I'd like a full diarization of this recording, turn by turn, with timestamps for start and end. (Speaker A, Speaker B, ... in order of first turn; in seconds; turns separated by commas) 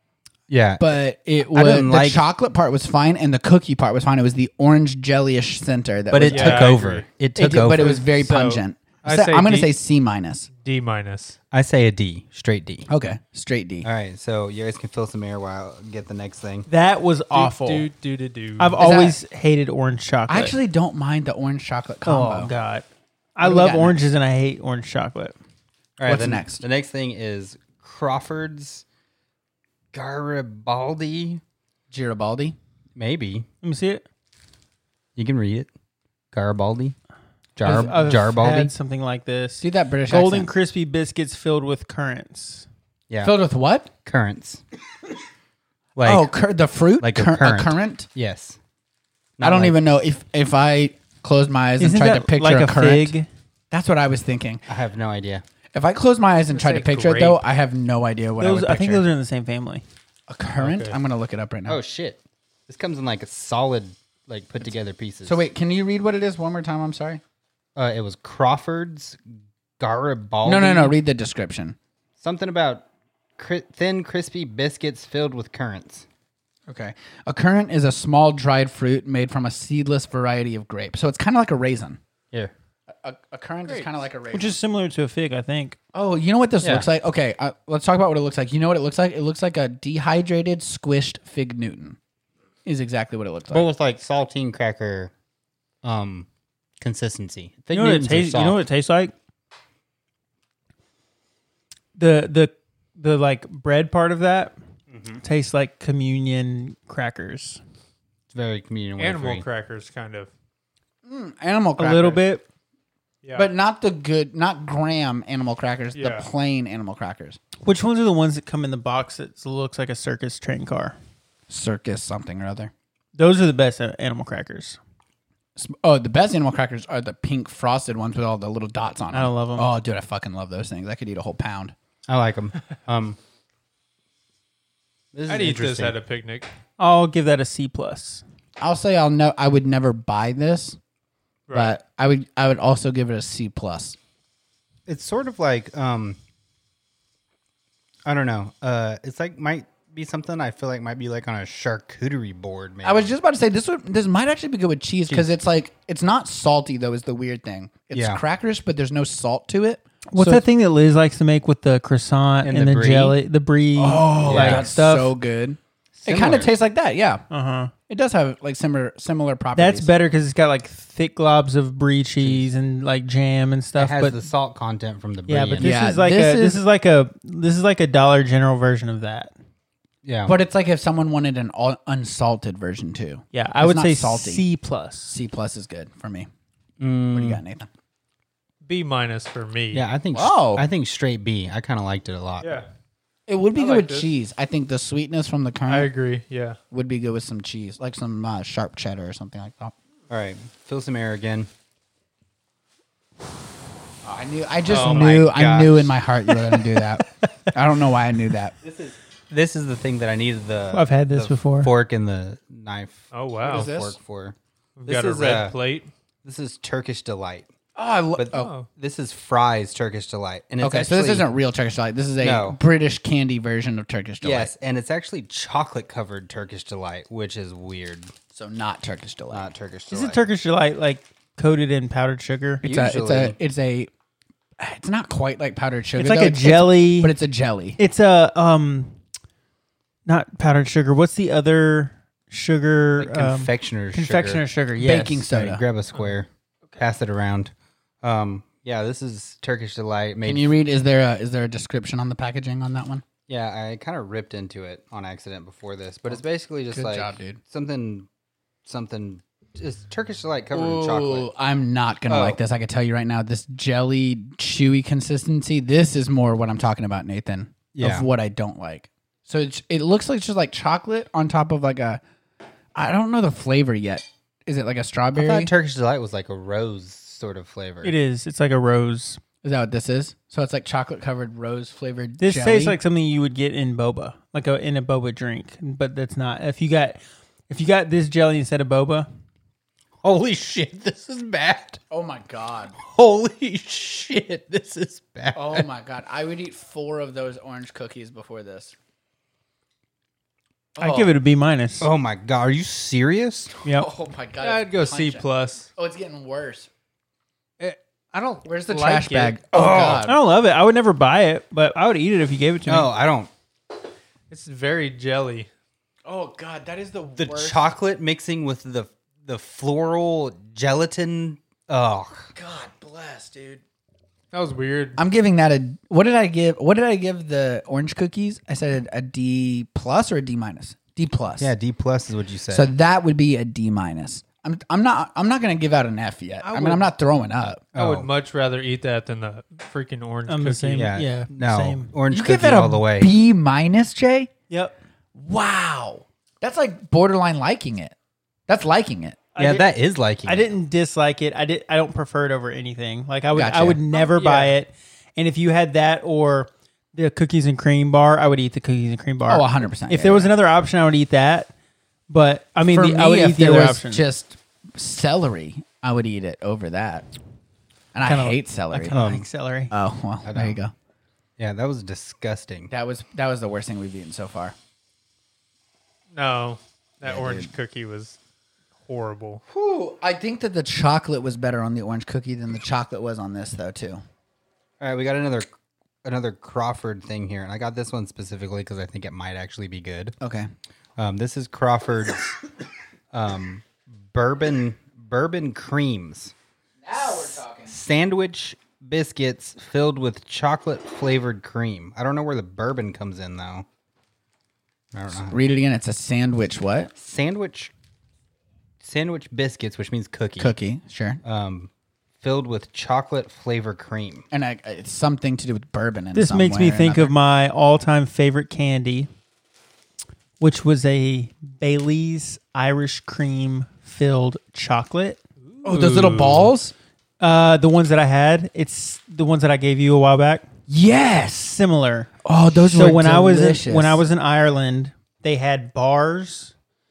Speaker A: 0.5-0.8, Speaker B: 0.8-6.8, Speaker A: 1.5-2.2, Speaker A: 6.1-8.0, Speaker C: 6.2-7.1, Speaker B: 7.4-10.5, Speaker C: 7.7-9.7, Speaker C: 10.5-11.4, Speaker A: 11.5-12.9, Speaker B: 12.9-13.9, Speaker A: 13.8-16.7, Speaker D: 16.7-17.9, Speaker C: 17.3-18.8, Speaker D: 18.6-20.5, Speaker B: 18.8-19.2, Speaker B: 20.3-22.5, Speaker D: 22.1-25.4, Speaker B: 23.4-24.1, Speaker A: 26.0-28.8, Speaker B: 26.1-26.6, Speaker A: 29.9-31.4, Speaker B: 31.9-32.6, Speaker A: 33.0-33.5, Speaker D: 33.6-34.0, Speaker A: 35.2-35.7, Speaker A: 36.3-37.0, Speaker A: 37.6-38.7, Speaker D: 37.6-42.7, Speaker B: 39.6-40.5, Speaker A: 43.1-43.4, Speaker B: 43.2-43.9, Speaker A: 44.0-44.6, Speaker A: 46.0-46.3, Speaker B: 46.0-48.1, Speaker A: 47.0-48.6, Speaker A: 49.4-49.9, Speaker B: 49.4-53.1, Speaker D: 51.8-53.3, Speaker B: 53.7-54.6, Speaker A: 54.7-55.4, Speaker B: 55.7-59.0, Speaker C: 56.5-57.4, Speaker D: 58.4-59.8, Speaker B: 60.3-61.8, Speaker C: 60.6-61.0, Speaker A: 61.7-65.4, Speaker B: 65.2-67.2, Speaker A: 67.8-69.2, Speaker A: 69.8-71.0, Speaker B: 70.4-71.8, Speaker A: 72.2-72.8, Speaker A: 73.4-76.1, Speaker B: 76.7-82.0, Speaker B: 82.9-84.6, Speaker D: 84.3-85.8, Speaker B: 85.9-92.0, Speaker B: 92.7-93.7, Speaker A: 93.5-95.1, Speaker A: 95.8-96.3, Speaker A: 96.8-98.6, Speaker D: 97.7-99.1, Speaker D: 102.0-104.5, Speaker A: 104.9-105.2, Speaker D: 105.2-107.6, Speaker A: 108.3-109.5, Speaker C: 109.0-110.3, Speaker B: 111.0-112.2, Speaker D: 111.8-112.5, Speaker C: 113.2-113.5, Speaker B: 113.4-117.4, Speaker C: 116.0-116.3, Speaker D: 117.6-121.0, Speaker B: 121.5-122.7, Speaker D: 123.2-124.8, Speaker B: 125.6-131.7, Speaker D: 129.1-129.7, Speaker A: 132.1-133.2, Speaker A: 135.1-136.0, Speaker C: 135.3-136.5, Speaker D: 136.8-138.2, Speaker B: 138.6-140.8, Speaker C: 141.5-141.8, Speaker B: 141.5-144.0, Speaker A: 144.9-146.2, Speaker A: 148.1-153.1, Speaker B: 152.8-160.4, Speaker A: 157.9-158.2, Speaker D: 160.1-165.1, Speaker A: 162.4-163.2, Speaker B: 163.8-167.2, Speaker A: 164.2-164.7, Speaker A: 166.0-166.5, Speaker D: 167.3-167.7, Speaker B: 167.9-169.9, Speaker D: 169.6-174.2, Speaker A: 172.2-172.5, Speaker A: 173.8-175.7, Speaker D: 175.3-179.3, Speaker B: 175.6-176.6, Speaker A: 180.1-180.3, Speaker B: 180.3-184.4, Speaker D: 183.3-185.2, Speaker B: 185.1-186.3, Speaker A: 186.8-187.4, Speaker B: 187.1-187.7, Speaker C: 188.6-189.9, Speaker A: 189.7-192.6, Speaker B: 190.1-190.7, Speaker C: 192.4-192.7, Speaker B: 193.3-195.9, Speaker C: 193.6-194.1, Speaker C: 195.7-196.6, Speaker B: 196.7-199.7, Speaker A: 200.1-201.5, Speaker B: 204.0-208.5, Speaker A: 204.7-205.9, Speaker C: 204.7-205.2, Speaker A: 208.6-215.6, Speaker D: 210.7-211.7, Speaker C: 213.1-213.7, Speaker B: 213.4-214.0, Speaker C: 214.8-215.9, Speaker A: 216.2-217.5, Speaker B: 217.8-218.5, Speaker A: 218.2-221.3, Speaker C: 218.3-218.7, Speaker B: 220.6-224.5, Speaker A: 222.2-222.6, Speaker A: 224.2-228.1, Speaker B: 228.3-229.5, Speaker A: 229.3-230.2, Speaker D: 229.9-232.6, Speaker A: 232.6-233.3, Speaker B: 232.6-233.9, Speaker B: 234.6-237.8, Speaker D: 236.0-237.1, Speaker D: 237.8-238.9, Speaker D: 240.1-245.3, Speaker A: 243.0-244.4, Speaker B: 244.8-245.6, Speaker A: 245.3-250.5, Speaker B: 250.2-253.1, Speaker A: 253.3-258.1, Speaker B: 256.1-257.4, Speaker A: 258.7-261.3, Speaker B: 260.5-272.0, Speaker A: 262.1-262.4, Speaker A: 267.7-268.1, Speaker B: 272.8-275.5, Speaker A: 275.1-278.0, Speaker D: 277.8-279.2, Speaker B: 279.4-282.8, Speaker D: 282.2-289.1, Speaker A: 290.0-291.8, Speaker B: 291.9-292.8, Speaker A: 292.8-295.6, Speaker B: 295.4-298.7, Speaker B: 300.8-301.1, Speaker D: 300.8-301.9, Speaker A: 301.8-303.6, Speaker B: 303.7-306.7, Speaker C: 304.4-305.7, Speaker C: 307.6-309.4, Speaker B: 308.4-310.2, Speaker A: 309.5-310.1, Speaker D: 310.1-312.9, Speaker A: 312.7-313.3, Speaker C: 314.3-315.5, Speaker B: 316.1-317.7, Speaker A: 317.2-322.3, Speaker B: 322.4-323.6, Speaker C: 324.3-325.0, Speaker B: 325.0-331.5, Speaker A: 331.4-332.7, Speaker B: 332.5-337.6, Speaker C: 336.4-336.9, Speaker A: 337.7-338.1, Speaker C: 337.8-340.9, Speaker D: 340.3-341.9, Speaker A: 340.8-343.1, Speaker B: 342.1-344.3, Speaker D: 344.5-344.8, Speaker B: 345.1-347.9, Speaker B: 348.5-349.2, Speaker D: 349.4-349.7, Speaker A: 349.4-350.5, Speaker D: 350.3-361.5, Speaker B: 353.3-353.9, Speaker C: 354.0-354.6, Speaker B: 359.3-360.3, Speaker D: 362.1-364.0, Speaker B: 362.7-367.1, Speaker B: 367.9-368.9, Speaker D: 368.0-369.7, Speaker A: 368.9-369.3, Speaker B: 369.7-370.7, Speaker A: 370.2-370.6, Speaker A: 371.4-372.7, Speaker B: 372.7-374.6, Speaker C: 376.1-378.2, Speaker B: 377.0-377.5, Speaker C: 378.8-379.4, Speaker B: 379.5-384.0, Speaker A: 384.8-385.5, Speaker A: 386.0-390.1, Speaker B: 390.2-390.5, Speaker A: 391.0-392.3, Speaker A: 393.1-396.3, Speaker B: 396.8-397.7, Speaker A: 397.7-403.7, Speaker A: 404.9-405.4, Speaker B: 405.2-406.9, Speaker A: 407.0-407.7, Speaker A: 408.8-410.5, Speaker B: 410.4-411.2, Speaker A: 411.2-411.7, Speaker A: 412.2-414.3, Speaker B: 414.3-417.1, Speaker D: 416.1-419.1, Speaker D: 420.4-425.2, Speaker C: 425.5-426.5, Speaker B: 425.6-426.7, Speaker D: 427.2-430.5, Speaker B: 430.7-431.6, Speaker D: 431.5-432.1, Speaker B: 432.2-434.0, Speaker D: 432.7-436.5